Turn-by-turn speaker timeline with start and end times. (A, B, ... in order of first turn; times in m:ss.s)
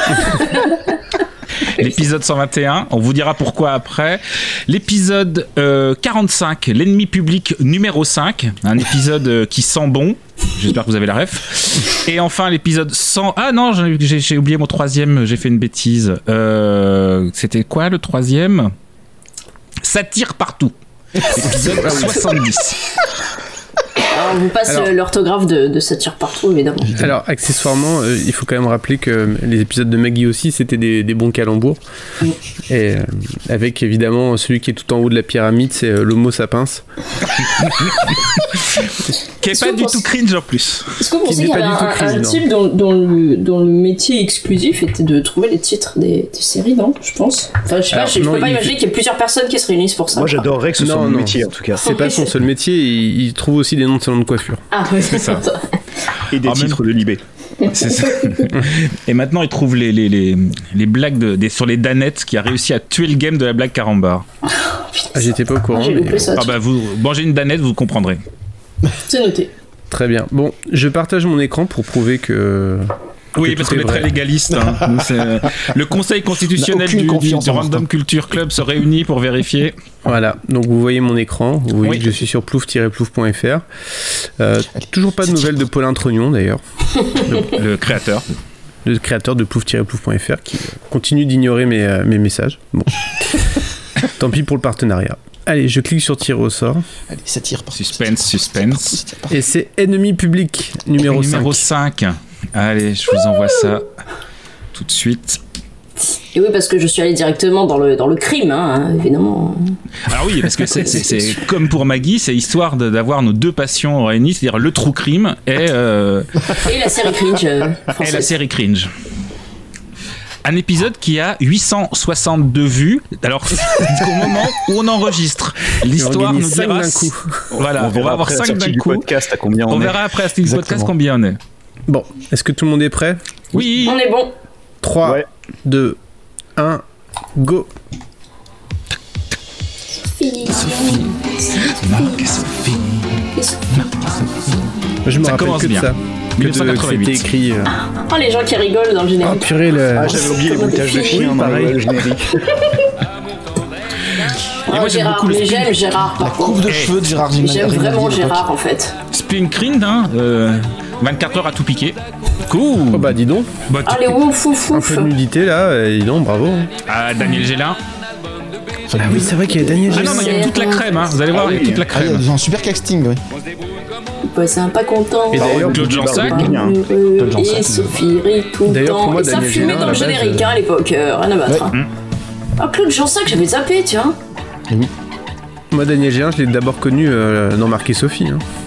0:01.6-0:18.7 A
0:19.8-0:22.8 A
0:21.7-0:22.2 B
0:21.8-0:22.1 C
0:24.1-0:26.9 D
0:24.7-0:24.9 B
0:27.0-0:31.8 B
0:32.7-0:36.8 B
0:37.8-0:38.1 A
0:39.4-0:40.9 A
0:39.5-0:40.0 D
0:41.0-0:50.5 D
0:41.2-0:42.4 B
0:47.9-0:48.8 B
0:50.1-0:51.8 E
0:50.8-0:54.6 B
0:51.8-0:52.3 D
0:54.7-0:55.8 D
0:55.1-0:55.4 A
0:56.3-0:57.2 E
0:56.4-0:56.8 A
0:57.6-0:58.4 D
0:57.7-1:04.2 A
1:04.6-1:06.5 D
1:05.1-1:06.4 B
1:06.4-1:08.2 A
1:09.1-1:09.5 D
1:09.9-1:14.1 B
1:13.4-1:19.8 A
1:16.6-1:17.9 C
1:20.0-1:27.6 B
1:21.8-1:22.1 A
1:27.4-1:28.2 A
1:28.8-1:33.6 B
1:34.2-1:36.8 B
1:37.1-1:39.4 C
1:37.8-1:39.0 A
1:39.3-1:41.7 B
1:41.0-1:43.9 A
1:44.7-1:45.4 A
1:46.1-1:49.8 D
1:50.1-1:56.5 A
1:56.6-1:58.3 D
1:58.0-1:58.9 A
2:00.4-2:09.1 A
2:06.0-2:07.4 B
2:07.6-2:10.0 E
2:09.7-2:11.4 A
2:10.4-2:10.9 C
2:11.9-2:13.2 B
2:13.5-2:14.0 A
2:13.8-2:14.3 D
2:14.8-2:16.0 B
2:16.6-2:16.8 B
2:17.4-2:17.7 B
2:20.0-2:22.3 D
2:20.5-2:23.2 A
2:23.4-2:23.9 D
2:23.8-2:24.6 A
2:25.0-2:27.7 B
2:25.2-2:27.3 A
2:27.8-2:31.4 D
2:29.2-2:30.3 B
2:30.0-2:32.4 E
2:31.1-2:31.8 B
2:32.5-2:32.9 D
2:34.6-2:35.9 A
2:34.7-2:36.6 D
2:36.2-2:38.5 C
2:36.7-2:37.0 A
2:37.4-2:39.0 D
2:39.1-2:43.2 A
2:42.9-2:43.5 B
2:43.7-2:44.2 A
2:43.9-2:45.1 D
2:44.7-2:46.7 B
2:46.9-2:47.8 A
2:48.9-2:49.3 C
2:49.0-2:50.3 B
2:49.2-2:51.2 D
2:49.9-2:52.3 A
2:51.3-2:51.9 E
2:51.9-2:53.2 C
2:54.3-3:01.7 D
2:55.3-2:55.8 B
2:55.3-2:56.9 E
2:55.5-2:56.5 A
2:57.2-2:58.0 C
2:58.7-3:00.6 B
3:02.6-3:04.2 D
3:05.7-3:08.4 B